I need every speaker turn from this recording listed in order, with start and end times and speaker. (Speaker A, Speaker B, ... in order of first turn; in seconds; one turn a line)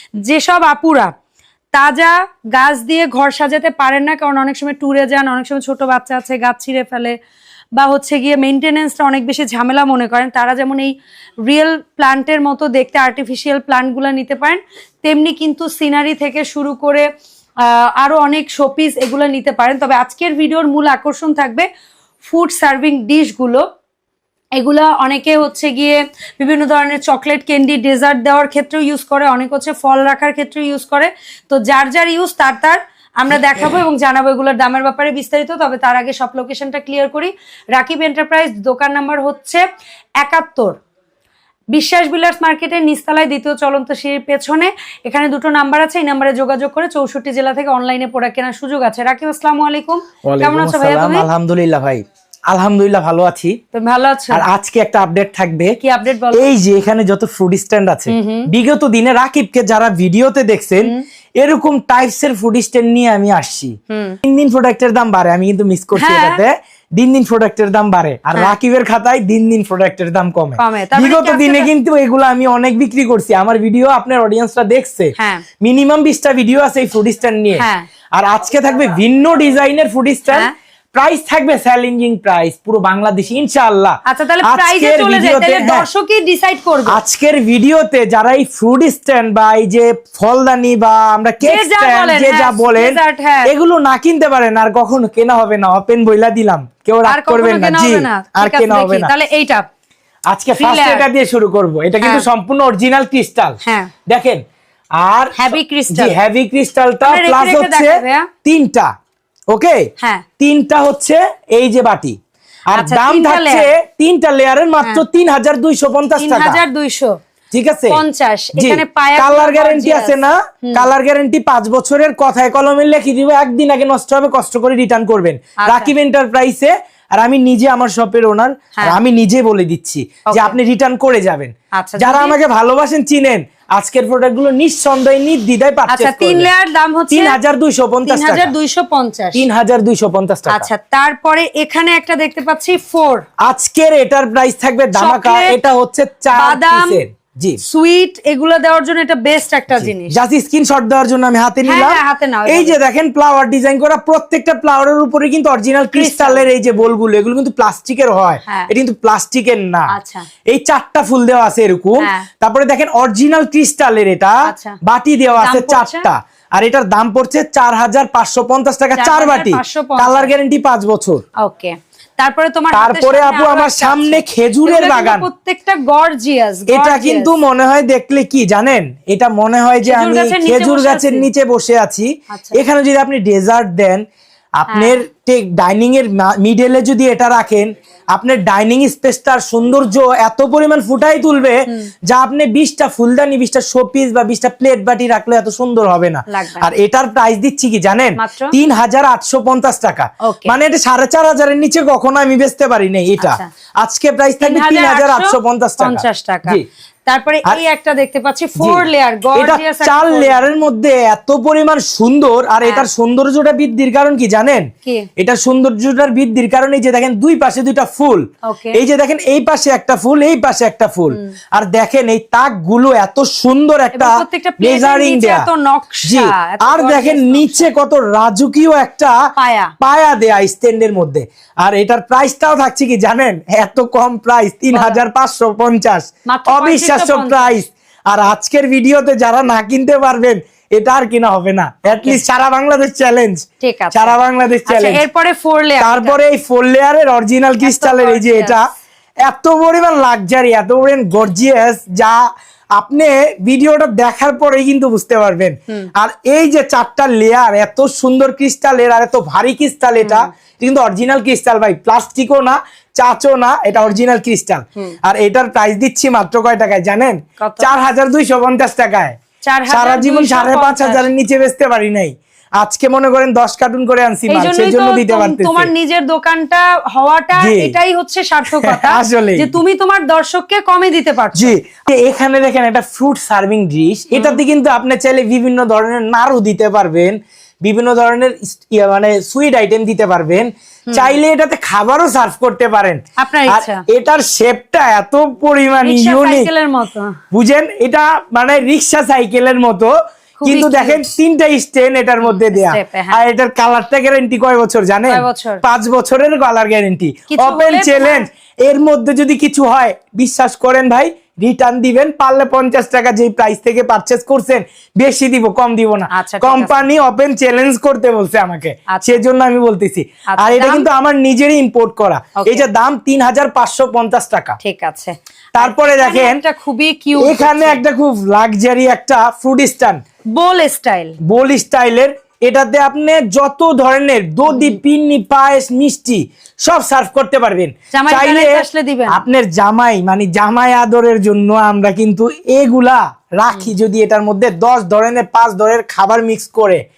Speaker A: 0.2-1.1
Speaker A: 1.7-7.2
Speaker A: 7.8-10.9
Speaker A: 11.5-17.1
Speaker A: 17.6-21.7
Speaker A: 22.2-23.6
Speaker A: 24.6-39.6
Speaker A: 40.2-40.8
Speaker A: 41.7-51.3
Speaker B: 50.2-53.6
Speaker A: 53.7-54.5
Speaker B: 54.3-55.8
Speaker A: 55.8-56.5
Speaker B: 56.3-85.9
Speaker A: 58.1-58.5
Speaker A: 63.9-64.2
Speaker A: 66.0-66.4
Speaker A: 70.6-71.7
Speaker A: 75.2-75.4
Speaker A: 77.6-77.9
Speaker A: 84.1-87.0
Speaker B: 86.9-99.1
Speaker A: 91.4-93.5
Speaker A: 97.0-99.7
Speaker B: 100.3-104.4
Speaker A: 100.5-101.1
Speaker A: 102.0-102.3
Speaker A: 103.6-103.9
Speaker B: 105.0-108.9
Speaker A: 105.4-106.2
Speaker A: 107.0-108.3
Speaker B: 109.5-109.9
Speaker B: 110.4-112.2
Speaker B: 112.7-116.6
Speaker A: 112.7-113.7
Speaker A: 116.2-117.2
Speaker B: 117.5-118.0
Speaker A: 117.9-120.9
Speaker B: 118.6-136.5
Speaker A: 125.6-125.9
Speaker A: 130.3-130.6
Speaker A: 131.7-132.4
Speaker A: 135.9-137.4
Speaker B: 137.1-138.5
Speaker A: 138.1-139.5
Speaker B: 139.3-140.7
Speaker A: 140.5-143.2
Speaker B: 143.4-147.6
Speaker A: 144.9-145.6
Speaker A: 146.3-147.0
Speaker A: 147.6-150.2
Speaker B: 149.7-159.9
Speaker A: 151.7-152.8
Speaker A: 155.9-156.9
Speaker A: 159.9-160.3
Speaker B: 160.5-171.2
Speaker A: 162.0-162.3
Speaker A: 164.5-164.8
Speaker A: 165.4-166.1
Speaker A: 168.9-170.3
Speaker A: 171.4-177.4
Speaker B: 172.7-175.3
Speaker B: 176.7-184.0
Speaker A: 179.8-181.3
Speaker A: 182.3-182.6
Speaker B: 184.6-206.7
Speaker A: 184.7-185.0
Speaker A: 196.3-196.7
Speaker A: 198.2-198.5
Speaker A: 200.2-200.6
Speaker A: 203.2-203.5
Speaker A: 204.4-210.5
Speaker B: 208.6-225.5
Speaker A: 212.6-212.9
Speaker A: 218.4-218.8
Speaker A: 223.9-227.7
Speaker B: 226.1-229.2
Speaker A: 229.4-229.7
Speaker B: 229.8-245.0
Speaker A: 234.7-235.0
Speaker A: 236.3-237.6
Speaker A: 241.9-242.2
Speaker A: 243.6-246.2
Speaker B: 245.8-248.7
Speaker A: 247.6-248.6
Speaker B: 249.2-269.2
Speaker A: 260.0-260.3
Speaker A: 267.4-267.7
Speaker A: 269.4-271.1
Speaker B: 269.7-275.7
Speaker A: 274.3-281.6
Speaker B: 277.4-277.8
Speaker B: 278.5-279.6
Speaker B: 281.4-296.5
Speaker A: 284.1-284.4
Speaker A: 290.9-291.2
Speaker A: 293.2-293.8
Speaker A: 295.8-297.2
Speaker B: 297.3-324.6
Speaker A: 300.4-301.1
Speaker A: 302.2-303.2
Speaker A: 305.1-305.6
Speaker A: 307.3-308.3
Speaker A: 316.1-316.9
Speaker A: 318.9-319.2
Speaker A: 320.3-320.9
Speaker A: 322.4-322.7
Speaker A: 324.6-327.8
Speaker B: 325.6-326.4
Speaker B: 327.2-330.0
Speaker A: 330.3-331.2
Speaker B: 331.2-346.8
Speaker A: 334.5-334.8
Speaker A: 337.9-339.2